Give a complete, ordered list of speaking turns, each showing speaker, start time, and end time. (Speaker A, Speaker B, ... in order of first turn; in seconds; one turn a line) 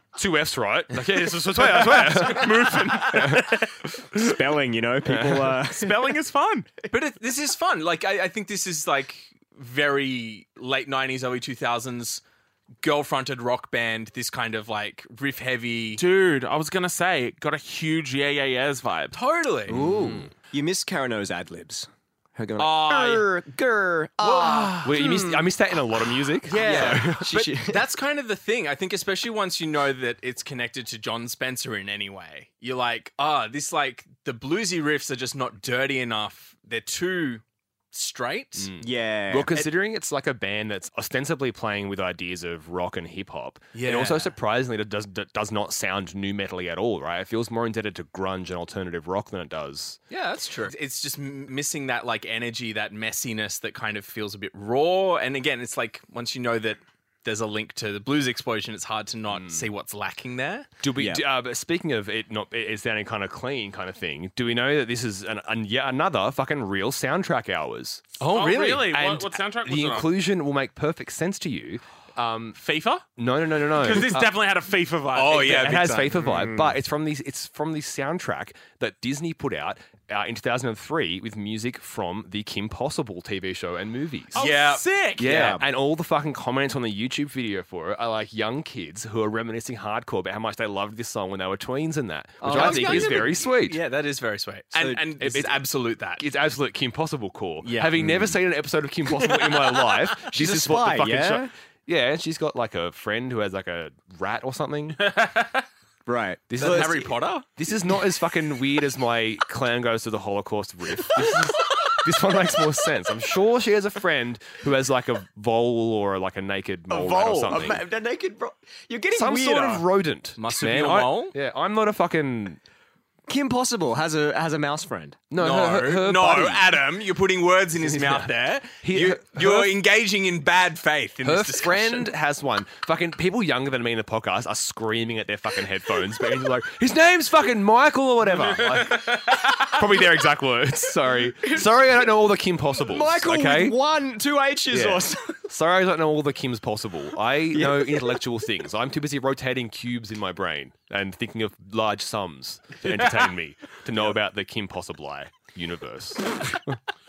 Speaker A: 0.1-4.2
Speaker B: 1.7-3.1
Speaker C: 1.8-3.8
Speaker D: 4.1-6.2
Speaker A: 5.1-5.6
Speaker C: 5.7-6.7
Speaker B: 6.9-12.2
Speaker B: 12.8-16.0
Speaker C: 16.0-19.2
Speaker B: 19.1-19.9
Speaker D: 19.7-25.5
Speaker A: 19.7-20.3
Speaker B: 22.6-23.2
Speaker B: 24.2-25.0
Speaker A: 24.8-27.3
Speaker B: 26.4-38.7
Speaker D: 26.5-27.9
Speaker A: 38.6-50.0
Speaker D: 38.8-39.6
Speaker B: 43.7-44.3
Speaker B: 50.1-60.7
Speaker A: 59.3-59.7
Speaker A: 60.8-68.2
Speaker D: 61.0-61.2
Speaker B: 68.2-68.9
Speaker C: 68.3-70.1
Speaker A: 68.9-72.6
Speaker C: 72.6-73.0
Speaker A: 73.2-74.3
Speaker C: 73.7-75.8
Speaker B: 75.1-76.2
Speaker A: 75.4-84.5
Speaker D: 76.2-76.8
Speaker C: 84.3-85.5
Speaker B: 84.4-85.6
Speaker A: 85.2-93.8
Speaker D: 85.2-85.7
Speaker D: 92.4-93.3
Speaker B: 92.4-96.2
Speaker D: 94.7-95.1
Speaker A: 95.2-95.7
Speaker A: 96.2-105.1
Speaker B: 97.6-98.2
Speaker D: 98.0-98.3
Speaker B: 99.3-99.7
Speaker D: 100.2-101.5
Speaker C: 105.0-105.7
Speaker D: 106.1-107.1
Speaker A: 106.5-117.8
Speaker B: 106.6-107.5
Speaker D: 116.9-119.9
Speaker A: 119.1-122.6
Speaker B: 120.4-121.3
Speaker D: 123.3-125.2
Speaker A: 125.3-126.8
Speaker B: 125.4-132.1
Speaker A: 127.8-129.8
Speaker A: 131.2-143.8
Speaker C: 138.7-139.4
Speaker D: 141.4-141.8
Speaker D: 142.8-145.4
Speaker A: 144.7-156.8
Speaker D: 147.5-148.2